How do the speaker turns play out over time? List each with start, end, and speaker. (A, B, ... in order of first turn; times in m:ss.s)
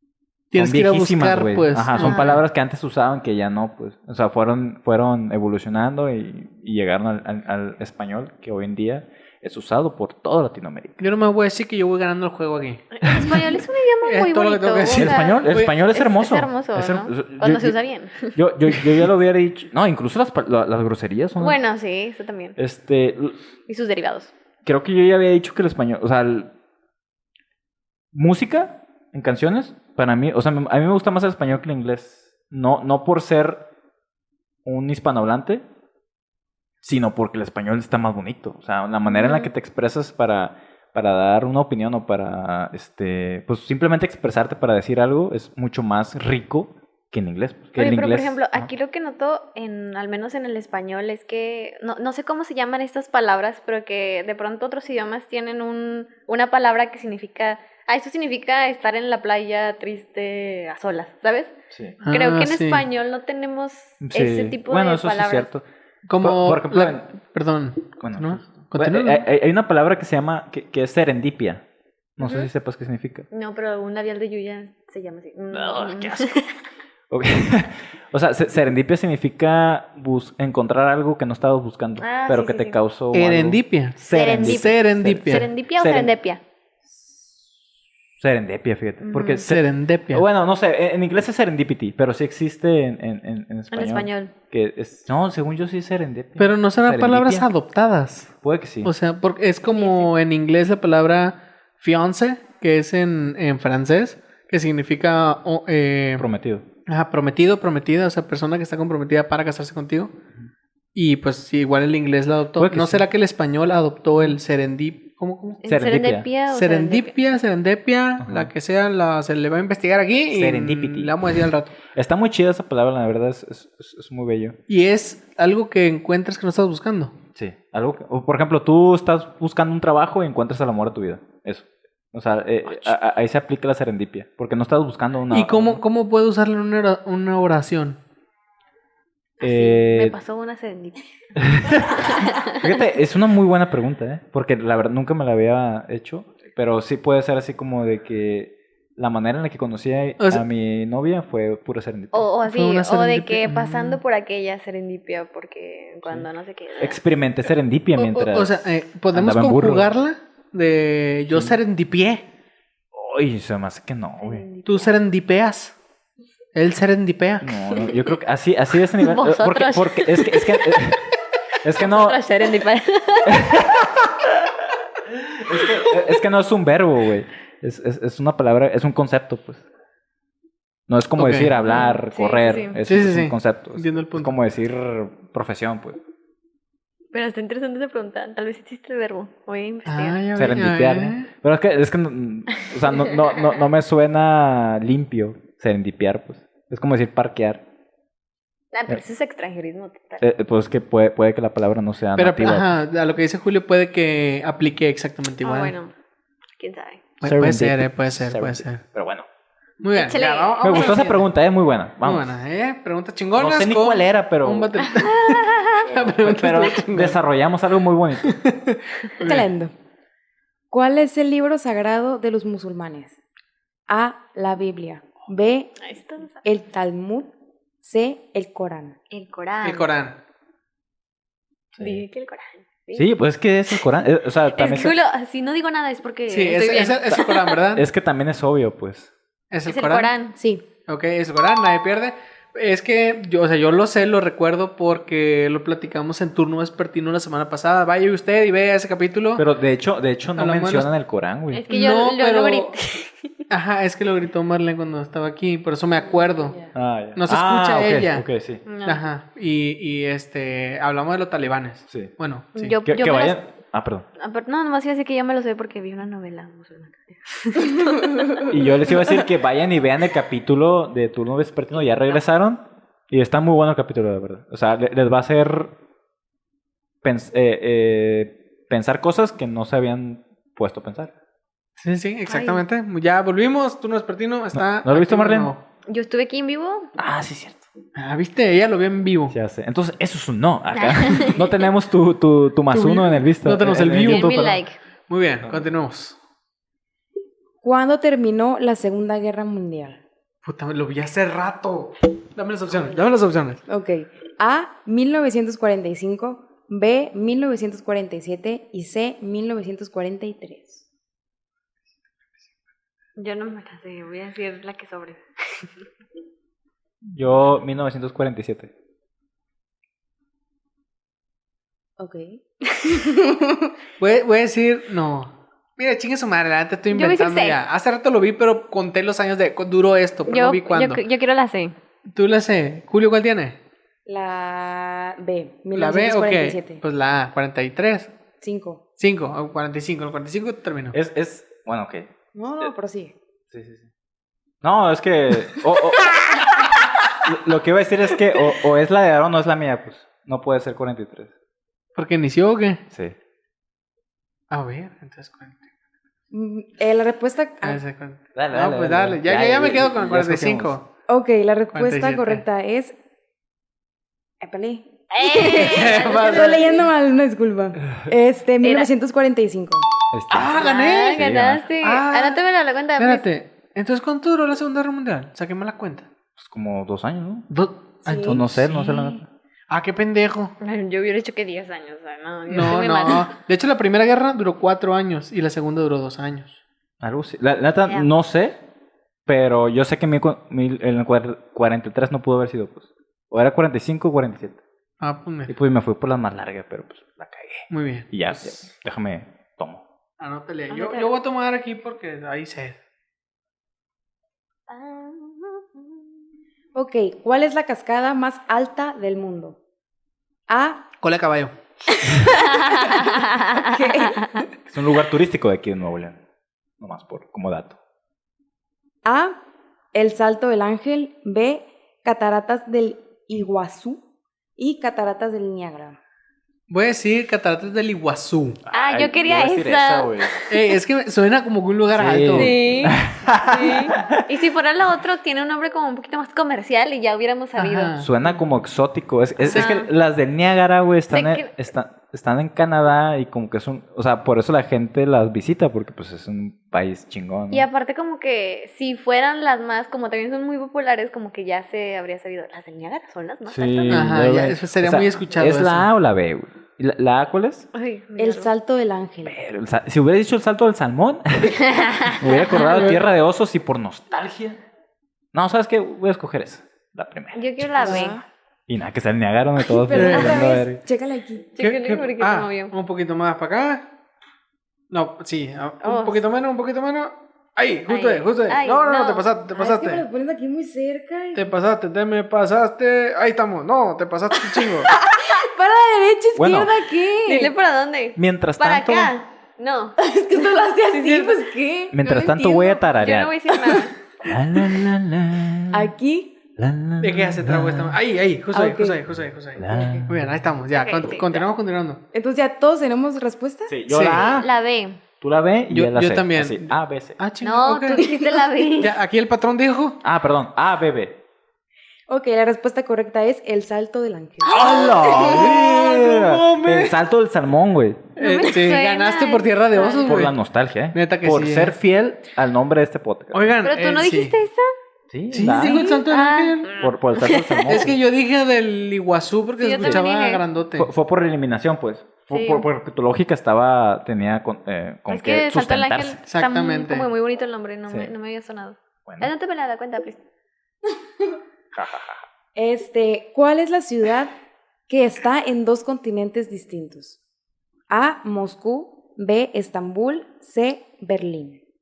0:00.5-0:02.4 A
0:00.6-0:11.0 B
0:02.0-0:02.4 C
0:11.0-0:12.8 A
0:13.0-0:18.4 C
0:13.1-0:13.4 B
0:14.0-0:15.7 A
0:14.9-0:17.8 B
0:18.3-0:21.6 B
0:21.4-0:22.6 C
0:22.6-0:23.4 B
0:23.7-0:24.3 C
0:24.6-0:26.5 B
0:28.1-0:33.6 B
0:34.6-0:35.6 B
0:36.8-0:48.7 B
0:39.1-0:39.5 C
0:47.8-1:01.5 C
1:01.7-1:02.0 B
1:02.0-1:02.8 A
1:02.1-1:05.5 C
1:04.0-1:05.6 B
1:06.0-1:09.2 A
1:06.2-1:07.1 B
1:08.0-1:11.6 B
1:12.2-1:13.2 B
1:12.2-1:12.5 C
1:13.3-1:16.5 C
1:15.5-1:16.3 B
1:17.1-1:26.1 B
1:22.0-1:22.8 C
1:23.1-1:25.5 A
1:24.0-1:26.4 C
1:26.9-1:27.4 B
1:28.2-1:37.5 B
1:29.0-1:29.4 C
1:29.4-1:30.2 A
1:33.7-1:34.3 C
1:36.4-1:38.3 A
1:38.4-1:38.9 B
1:38.8-1:46.3 A
1:39.6-1:40.1 C
1:46.2-1:46.6 B
1:46.9-1:50.1 A
1:50.9-1:55.6 A
1:52.6-1:53.0 B
1:55.6-1:57.1 C
1:55.7-1:56.3 B
1:56.5-2:01.8 A
1:58.2-1:58.5 B
2:00.3-2:04.6 B
2:04.7-2:07.1 A
2:07.3-2:15.8 B
2:15.3-2:18.0 A
2:19.4-2:22.8 C
2:19.4-2:20.2 B
2:21.4-2:32.3 B
2:30.2-2:30.4 A
2:32.1-2:37.0 C
2:32.4-2:34.0 A
2:36.8-2:39.9 B
2:38.0-2:42.2 A
2:41.3-2:41.6 B
2:42.9-2:44.4 B
2:44.2-2:44.9 C
2:44.6-2:45.7 A
2:46.5-2:47.5 A
2:47.4-2:51.0 B
2:49.0-2:50.8 C
2:51.6-2:52.2 B
2:51.8-2:53.5 C
2:53.2-2:54.5 B
2:55.1-2:59.6 B
3:00.9-3:06.0 B
3:01.2-3:01.6 A
3:01.7-3:02.8 C
3:02.8-3:04.3 A
3:07.1-3:10.2 C
3:09.9-3:11.3 A
3:10.3-3:17.6 B
3:12.6-3:13.2 C
3:18.7-3:20.3 C
3:20.2-3:22.7 B
3:22.2-3:25.7 A
3:25.4-3:25.9 C
3:26.6-3:27.1 C
3:27.2-3:28.8 A
3:27.2-3:29.3 B
3:29.8-3:31.2 A
3:29.9-3:31.0 C
3:30.6-3:32.3 B
3:32.0-3:37.2 A
3:33.4-3:34.7 B
3:34.8-3:35.9 C
3:35.8-3:38.3 B
3:38.2-3:39.5 A
3:39.2-3:39.7 D
3:40.7-3:43.2 D
3:43.9-3:45.7 D
3:45.8-3:46.4 C
3:46.4-3:47.3 D
3:47.8-3:49.0 D
3:49.1-3:49.9 C
3:49.6-3:50.2 A
3:51.8-3:52.0 B
3:51.8-3:53.1 C
3:52.9-3:54.9 B
3:54.5-3:57.6 C
3:56.3-3:57.8 A
3:57.7-3:59.1 B
3:59.5-4:00.1 A
3:59.6-4:00.4 C
4:00.4-4:00.6 D
4:00.9-4:09.4 A
4:09.4-4:11.6 B
4:10.4-4:10.9 A
4:11.5-4:13.3 C
4:11.7-4:12.7 A
4:13.5-4:18.2 A
4:16.7-4:18.6 B
4:18.6-4:19.0 C
4:18.8-4:22.8 A
4:22.5-4:23.4 C
4:22.8-4:24.0 B
4:24.2-4:28.6 C
4:28.5-4:35.7 B
4:37.0-4:41.1 B
4:41.8-4:45.6 A
4:42.3-4:42.6 C
4:44.5-4:45.5 B
4:45.9-4:46.9 C
4:47.0-4:47.6 B
4:47.9-4:49.3 A
4:49.3-4:54.6 B
4:50.7-4:51.6 C
4:52.7-4:56.2 A
4:54.0-4:54.8 C
4:55.4-4:55.7 B
4:57.6-5:00.0 D
5:00.4-5:03.6 A
5:03.7-5:10.8 D
5:13.2-5:15.7 C
5:17.0-5:18.7 B
5:22.0-5:23.7 D
5:24.0-5:31.0 A
5:26.9-5:27.6 C
5:30.2-5:31.7 C
5:32.1-5:33.6 A
5:34.0-5:36.8 D
5:35.7-5:38.1 A
5:38.4-5:38.8 D
5:39.0-5:41.0 A
5:40.9-5:42.7 B
5:42.3-5:43.1 D
5:43.5-5:43.9 B
5:44.6-5:46.7 B
5:47.2-5:51.3 B
5:51.9-5:52.8 A
5:52.9-5:53.2 B
5:54.5-5:55.6 A
5:56.3-5:57.8 D
5:57.6-6:00.8 A
5:58.3-6:00.7 B
6:01.1-6:03.0 D
6:01.7-6:02.4 A
6:04.4-6:09.8 D
6:05.1-6:06.8 C
6:05.4-6:06.8 A
6:08.6-6:08.9 C
6:10.1-6:11.7 B
6:10.3-6:11.2 A
6:10.5-6:13.2 C
6:11.8-6:12.4 A
6:13.0-6:16.1 A
6:16.4-6:17.5 B
6:17.5-6:19.2 A
6:18.0-6:18.4 D
6:18.2-6:19.3 B
6:19.7-6:20.5 A
6:20.6-6:23.3 C
6:22.5-6:26.6 A
6:27.0-6:28.6 B
6:29.2-6:34.6 B
6:35.0-6:35.5 A
6:35.5-6:39.8 B
6:37.7-6:38.6 A
6:40.2-6:42.8 A
6:40.7-6:41.1 C
6:44.7-6:46.1 C
6:46.7-6:49.6 D
6:50.5-6:50.8 D
6:51.0-6:51.5 A
6:52.0-6:54.4 D
6:52.3-6:54.4 C
6:54.7-6:56.2 B
6:56.8-6:57.8 B
6:59.0-6:59.3 D
6:59.9-7:04.0 D
7:04.6-7:06.0 D
7:06.7-7:08.6 A
7:08.6-7:10.4 B
7:08.7-7:10.7 C
7:10.5-7:12.9 A
7:11.9-7:14.2 B
7:12.3-7:17.9 C
7:17.6-7:18.1 A
7:18.0-7:27.6 B
7:19.4-7:19.7 A
7:19.5-7:19.9 C
7:21.1-7:21.5 C
7:27.5-7:34.2 C
7:33.5-7:37.7 B
7:33.9-7:35.9 A
7:37.7-7:38.5 C
7:38.2-7:39.4 D
7:39.2-7:44.6 B
7:41.6-7:42.6 C
7:42.5-7:43.0 A
7:45.3-7:48.1 B
7:47.3-7:48.2 C
7:47.8-7:48.2 D
7:48.7-7:50.8 B
7:49.7-7:51.5 D
7:49.9-7:50.4 A
7:51.6-7:52.7 C
7:51.6-7:53.8 A
7:54.9-8:00.0 A
7:55.8-7:56.2 C
7:57.9-7:59.3 C
7:59.5-8:01.4 D
8:01.3-8:04.9 A
8:04.9-8:07.5 D
8:06.4-8:06.8 B
8:07.2-8:10.0 C
8:08.2-8:09.1 B
8:10.0-8:12.9 D
8:10.9-8:11.5 C
8:11.9-8:13.3 B
8:12.9-8:13.9 C
8:14.2-8:15.9 B
8:15.7-8:16.3 D
8:16.6-8:18.0 B
8:17.0-8:22.0 A
8:18.5-8:19.0 D
8:19.6-8:20.3 B
8:19.7-8:20.1 D
8:20.7-8:21.4 C
8:22.1-8:23.7 D
8:23.7-8:24.5 B
8:23.9-8:24.3 A
8:24.1-8:25.0 C
8:25.2-8:27.2 B
8:25.7-8:28.1 A
8:27.4-8:29.0 C
8:28.0-8:28.3 D
8:28.8-8:30.0 A
8:30.0-8:31.2 B
8:32.1-8:35.1 D
8:34.5-8:38.1 B
8:34.5-8:35.0 C
8:34.5-8:37.0 A
8:38.2-8:40.3 A
8:38.2-8:40.3 C
8:40.0-8:43.5 B
8:40.9-8:41.8 A
8:43.3-8:44.3 A
8:43.6-8:44.6 C
8:45.1-8:45.9 B
8:45.3-8:46.7 A
8:45.4-8:47.9 C
8:46.8-8:47.9 B
8:47.7-8:50.9 A
8:49.6-8:50.4 C
8:50.8-8:56.2 B
8:52.3-8:52.6 C
8:55.1-9:00.2 C
8:56.3-8:57.1 A
8:59.0-8:59.3 B
9:01.7-9:02.2 B
9:02.6-9:04.3 D
9:04.9-9:07.2 D
9:07.9-9:11.6 D